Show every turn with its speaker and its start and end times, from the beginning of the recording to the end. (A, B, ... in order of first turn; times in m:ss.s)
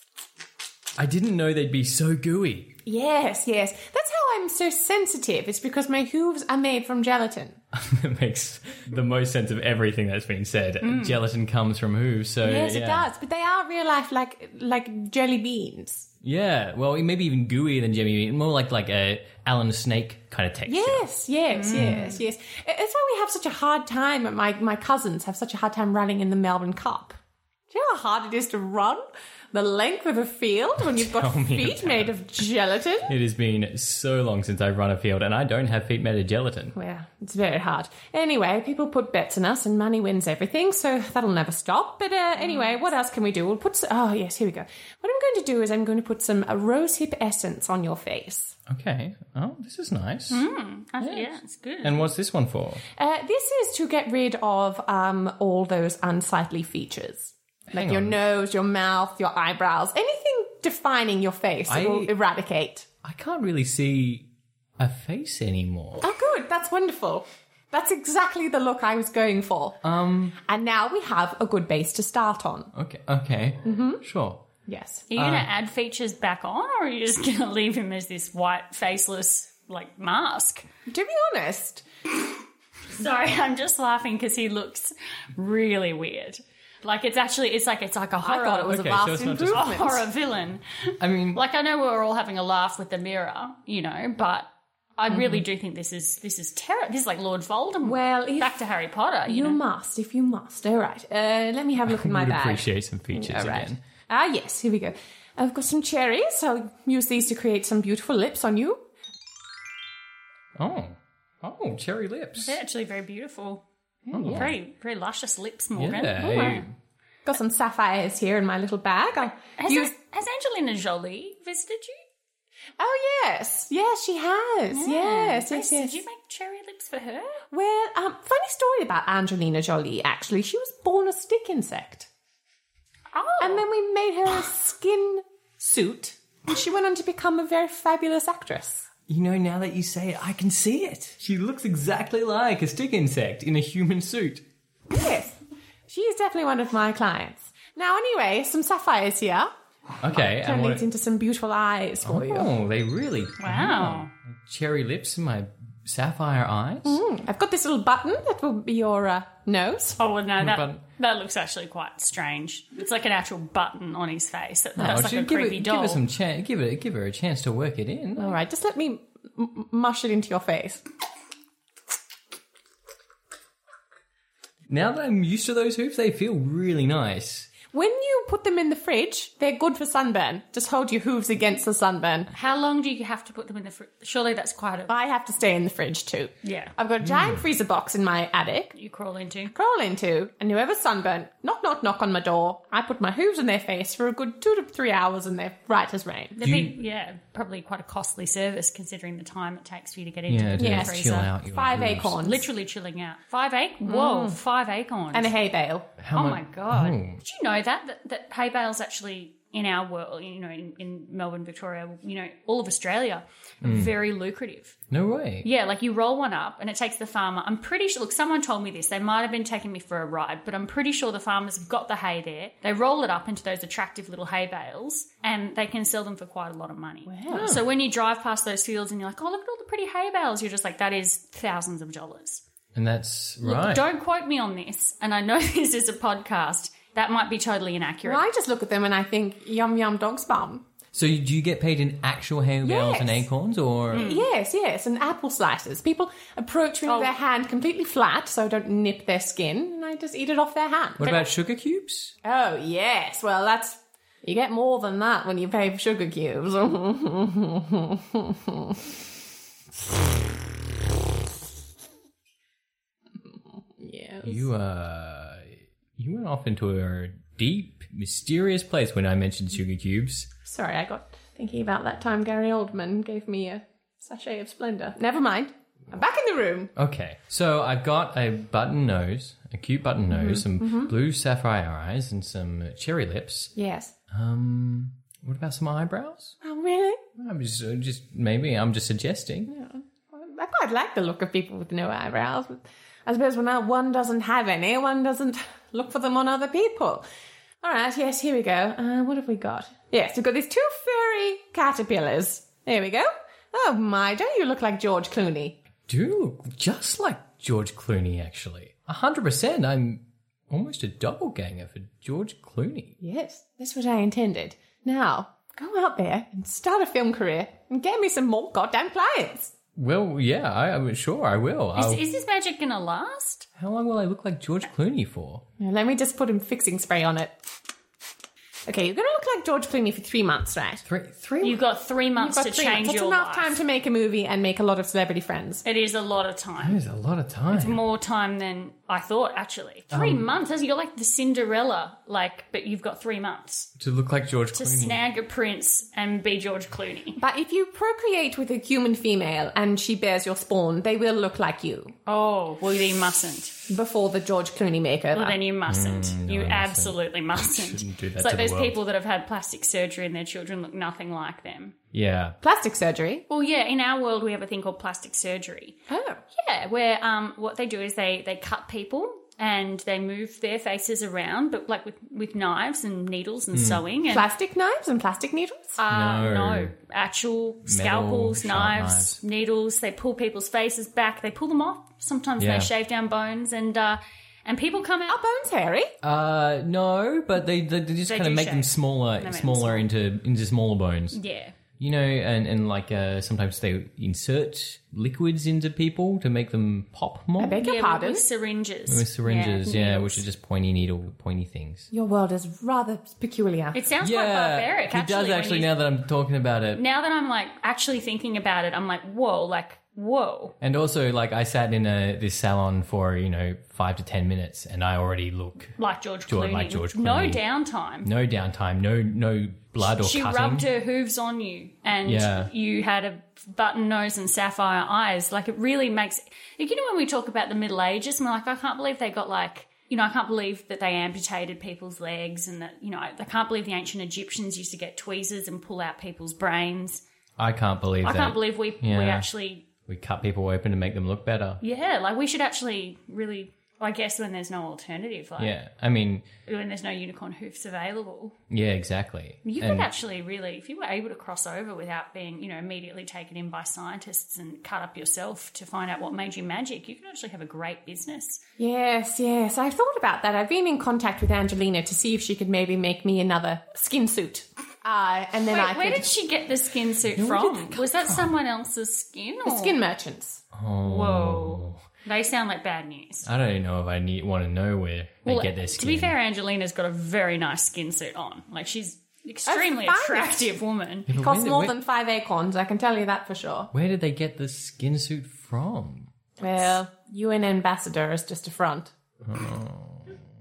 0:01.0-0:02.8 A
0:02.8-0:07.6 B
0:07.7-0:13.0 A
0:10.8-0:11.2 C
0:12.4-0:16.1 B
0:16.2-0:21.0 A
0:20.7-0:27.2 B
0:21.5-0:22.2 C
0:21.7-0:22.0 A
0:27.7-0:33.2 B
0:30.8-0:32.1 A
0:33.1-0:36.7 A
0:36.7-0:48.6 B
0:42.4-0:42.7 C
0:48.7-0:50.4 A
0:50.3-0:52.1 C
0:51.0-0:51.3 A
0:51.8-0:52.8 A
0:52.9-1:02.9 B
0:57.7-0:58.2 A
1:01.7-1:02.1 A
1:03.0-1:04.3 A
1:04.8-1:06.1 A
1:06.0-1:09.8 B
1:09.8-1:10.4 A
1:10.4-1:12.7 B
1:12.7-1:14.4 A
1:13.6-1:14.0 B
1:14.7-1:15.1 B
1:15.1-1:20.6 C
1:15.1-1:15.5 A
1:20.9-1:21.8 B
1:22.9-1:39.6 C
1:28.2-1:30.0 B
1:28.7-1:29.8 A
1:31.0-1:31.4 A
1:35.1-1:35.4 B
1:37.8-1:38.6 B
1:39.2-1:48.8 B
1:41.8-1:43.8 A
1:50.6-1:52.6 A
1:52.4-1:53.6 C
1:54.1-1:54.5 B
1:54.1-1:54.5 A
1:54.2-1:56.4 C
1:55.8-1:56.7 A
1:56.2-1:56.6 B
1:57.2-1:59.9 B
1:59.6-2:02.0 C
2:02.8-2:06.0 B
2:04.7-2:07.4 C
2:07.5-2:12.1 B
2:13.1-2:13.6 C
2:13.4-2:18.9 B
2:19.1-2:24.4 A
2:24.9-2:29.5 B
2:30.0-2:30.9 A
2:30.1-2:32.5 B
2:32.0-2:37.0 A
2:33.4-2:34.1 C
2:36.8-2:40.0 B
2:40.0-2:46.0 C
2:40.4-2:40.8 A
2:44.8-2:45.0 B
2:44.8-2:48.4 A
2:48.2-2:50.8 B
2:54.7-2:57.5 A
2:57.7-3:02.3 B
3:02.3-3:04.9 C
3:04.9-3:08.7 B
3:06.4-3:06.7 C
3:07.0-3:07.4 A
3:08.7-3:09.5 C
3:09.5-3:16.4 B
3:16.4-3:21.3 C
3:16.4-3:16.7 A
3:20.3-3:22.2 A
3:20.6-3:22.5 B
3:22.2-3:25.3 C
3:23.8-3:24.4 B
3:25.1-3:25.9 B
3:26.0-3:27.2 A
3:26.1-3:34.8 C
3:33.6-3:33.9 A
3:34.9-3:35.4 A
3:35.4-3:52.4 C
3:47.0-3:47.5 B
3:47.3-3:47.6 A
3:52.7-3:53.8 A
3:53.4-3:58.2 C
3:58.0-4:00.6 B
4:00.9-4:04.1 A
4:02.6-4:03.2 B
4:03.9-4:04.2 C
4:03.9-4:11.3 B
4:06.8-4:07.1 C
4:11.0-4:12.2 A
4:12.2-4:18.9 B
4:23.2-4:24.5 B
4:24.2-4:30.3 A
4:30.4-4:36.7 B
4:36.8-4:43.5 A
4:40.1-4:40.9 B
4:43.6-4:43.9 B
4:44.1-4:46.4 A
4:46.4-4:47.0 B
4:47.2-4:49.5 A
4:49.5-4:57.0 B
4:57.6-5:05.6 B
5:05.9-5:12.9 A
5:13.0-5:19.5 B
5:19.7-5:22.0 A
5:21.8-5:23.5 C
5:23.6-5:25.4 A
5:25.6-5:27.3 B
5:28.7-5:30.8 B
5:30.8-5:31.6 A
5:31.4-5:33.6 C
5:32.2-5:35.6 B
5:35.6-5:36.8 C
5:36.6-5:37.8 A
5:37.5-5:43.7 C
5:39.9-5:40.3 A
5:43.8-5:45.0 A
5:44.5-5:47.2 C
5:47.2-5:51.9 B
5:52.0-5:53.5 C
5:53.7-5:55.4 B
5:55.1-6:01.7 C
5:55.7-5:58.8 A
6:01.9-6:02.4 A
6:02.4-6:03.2 B
6:03.3-6:05.8 C
6:05.9-6:06.2 B
6:06.3-6:14.3 C
6:13.5-6:13.8 A
6:14.1-6:15.8 B
6:15.8-6:25.2 C
6:15.9-6:16.7 A
6:17.6-6:19.2 A
6:22.4-6:22.7 A
6:25.1-6:25.9 B
6:26.0-6:31.2 A
6:28.0-6:29.9 C
6:31.1-6:31.5 C
6:31.8-6:37.6 A
6:37.4-6:38.2 B
6:37.6-6:40.2 C
6:38.9-6:41.9 A
6:41.9-6:43.8 B
6:43.7-6:45.7 C
6:44.0-6:46.8 A
6:46.7-6:50.5 C
6:50.6-6:55.8 A
6:55.8-6:58.1 C
6:56.3-6:57.4 A
6:58.0-7:00.7 A
6:59.8-7:17.0 C
7:02.0-7:02.5 A
7:17.4-7:19.2 A
7:18.0-7:19.6 C
7:19.8-7:21.6 A
7:21.6-7:25.6 C
7:25.4-7:26.2 A
7:26.4-7:28.4 C
7:28.5-7:29.9 A
7:29.4-7:38.4 C
7:38.6-7:46.1 B
7:45.5-7:49.8 C
7:47.1-7:48.3 A
7:49.4-7:50.4 B
7:50.5-7:51.8 A
7:50.8-7:53.3 C
7:53.2-7:56.1 A
7:55.2-8:01.1 C
7:59.5-8:00.5 B
8:01.1-8:01.7 A
8:01.1-8:03.7 B
8:03.7-8:06.1 A
8:06.4-8:08.9 B
8:09.2-8:10.2 A